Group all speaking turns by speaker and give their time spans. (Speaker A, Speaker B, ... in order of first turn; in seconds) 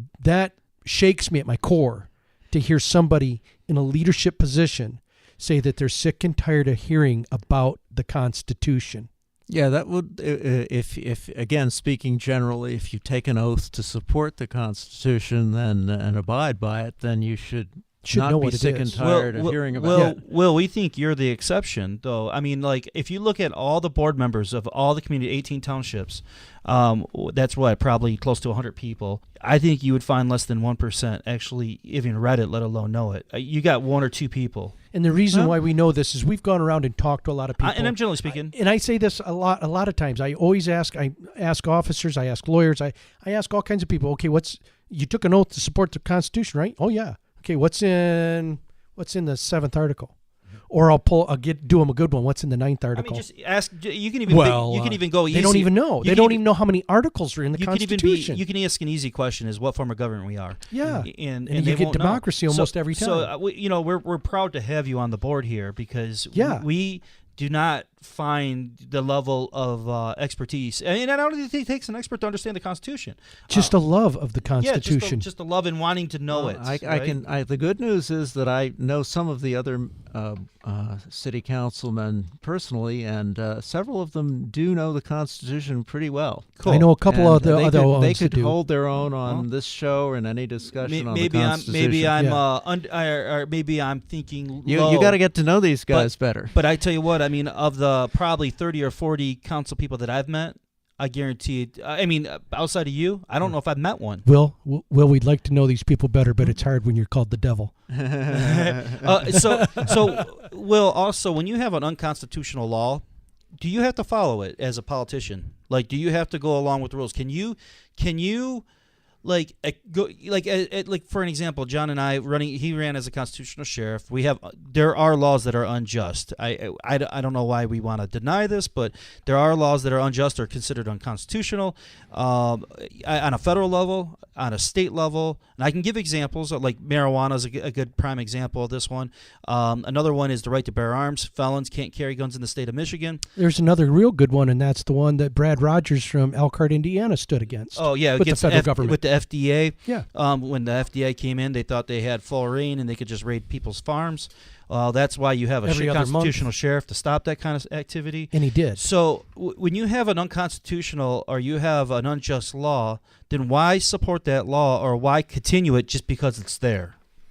Speaker A: 0.2-9.1, 18.0-19.0, 34.9-50.1, 50.7-53.2, 54.3-58.4, 60.7-63.3, 66.3-66.6, 73.5-75.3, 86.7-88.5, 92.2-92.4, 104.2-107.7, 109.3-110.0, 143.3-149.0, 155.6-156.5, 158.3-158.8
Speaker B: 9.5-20.1, 76.3-92.2, 94.6-96.5, 108.0-109.0
Speaker C: 18.9-34.7, 37.6-38.5, 52.9-56.4, 57.5-73.7, 74.6-77.2, 86.6-86.9, 90.8-95.2, 95.9-104.2, 108.3-113.0, 113.6-118.6, 119.2-143.2, 147.7-166.9